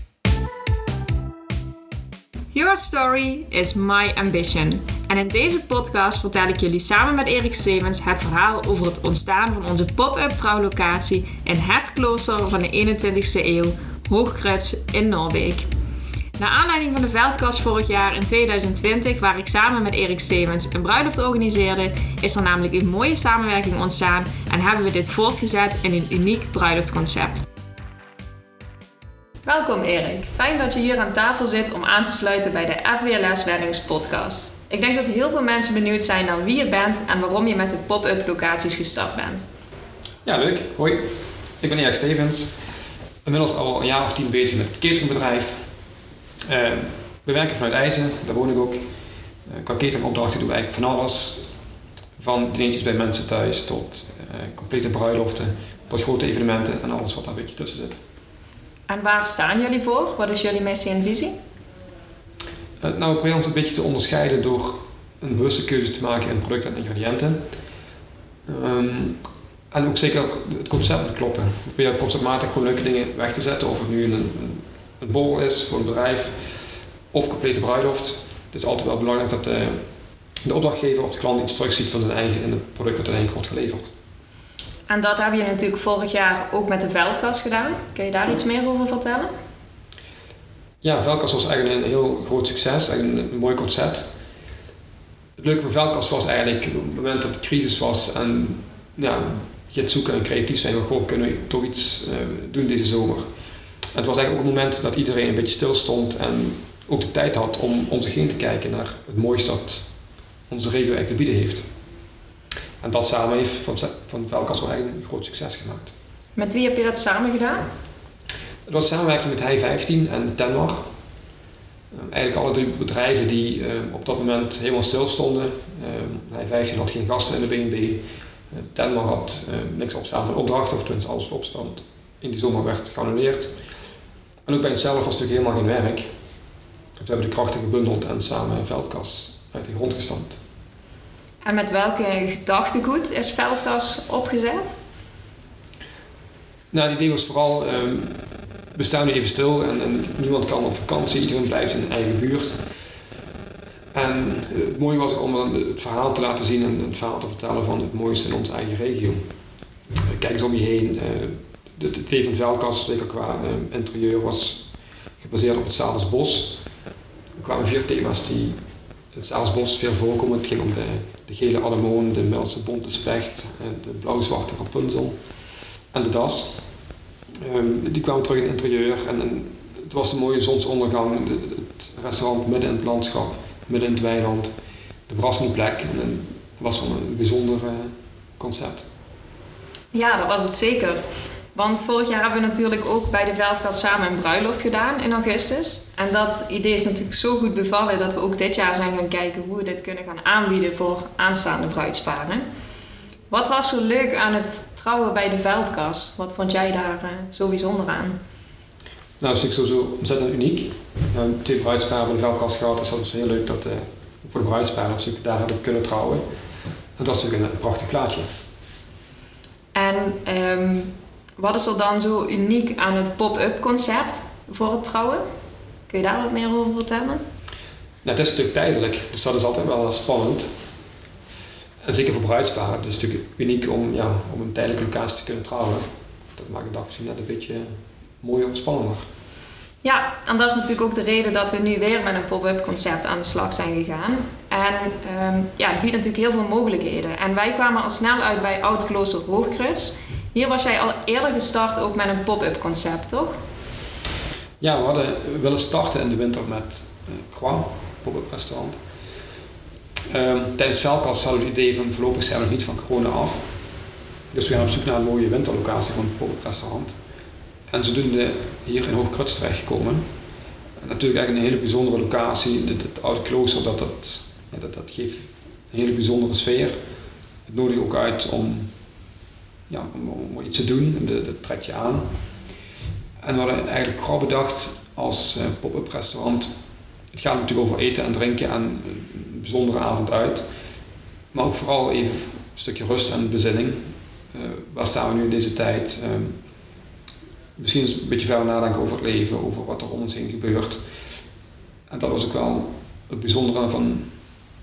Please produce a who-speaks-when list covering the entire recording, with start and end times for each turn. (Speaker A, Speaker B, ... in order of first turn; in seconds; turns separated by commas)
Speaker A: 2.5-15.7, Speaker A: 16.4-27.4, Speaker A: 29.5-39.5, Speaker B: 40.2-41.1, Speaker B: 41.6-42.6, Speaker B: 43.2-45.6, Speaker B: 46.5-48.8, Speaker B: 49.5-51.5, Speaker B: 52.2-58.0, Speaker A: 58.9-61.3, Speaker B: 62.8-67.4, Speaker B: 68.5-69.2, Speaker B: 69.7-76.4, Speaker B: 77.1-79.8, Speaker B: 80.5-83.9, Speaker A: 84.9-89.3, Speaker B: 90.8-94.1, Speaker B: 95.4-103.3, Speaker B: 103.9-109.9, Speaker B: 110.5-111.6, Speaker B: 112.8-115.9, Speaker A: 116.4-117.7, Speaker B: 118.7-120.8, Speaker B: 121.9-133.5, Speaker B: 134.5-136.1, Speaker B: 137.0-140.4, Speaker A: 141.4-144.7, Speaker B: 146.7-148.2, Speaker B: 148.8-152.6, Speaker B: 153.9-159.2, Speaker B: 160.1-166.6, Speaker B: 167.4-168.6, Speaker B: 169.1-175.2, Speaker B: 175.9-176.7, Speaker B: 177.4-184.5, Speaker B: 185.1-188.9, Speaker A: 189.9-191.0, Speaker A: 191.5-202.4, Speaker A: 203.3-208.2, Speaker B: 209.2-216.2, Speaker B: 217.0-218.3, Speaker A: 219.7-225.2, Speaker A: 225.9-227.2, Speaker B: 228.0-230.5, Speaker B: 231.8-235.8, Speaker B: 236.3-237.7, Speaker B: 238.2-239.1, Speaker A: 239.8-253.3, Speaker B: 254.6-258.8, Speaker B: 260.1-263.4, Speaker B: 264.3-266.9, Speaker B: 267.7-270.0, Speaker B: 270.8-276.8, Speaker B: 277.5-278.7, Speaker B: 279.7-282.1, Speaker B: 283.2-286.5, Speaker B: 287.1-290.5, Speaker B: 291.3-296.4, Speaker B: 297.6-300.8, Speaker B: 301.9-304.1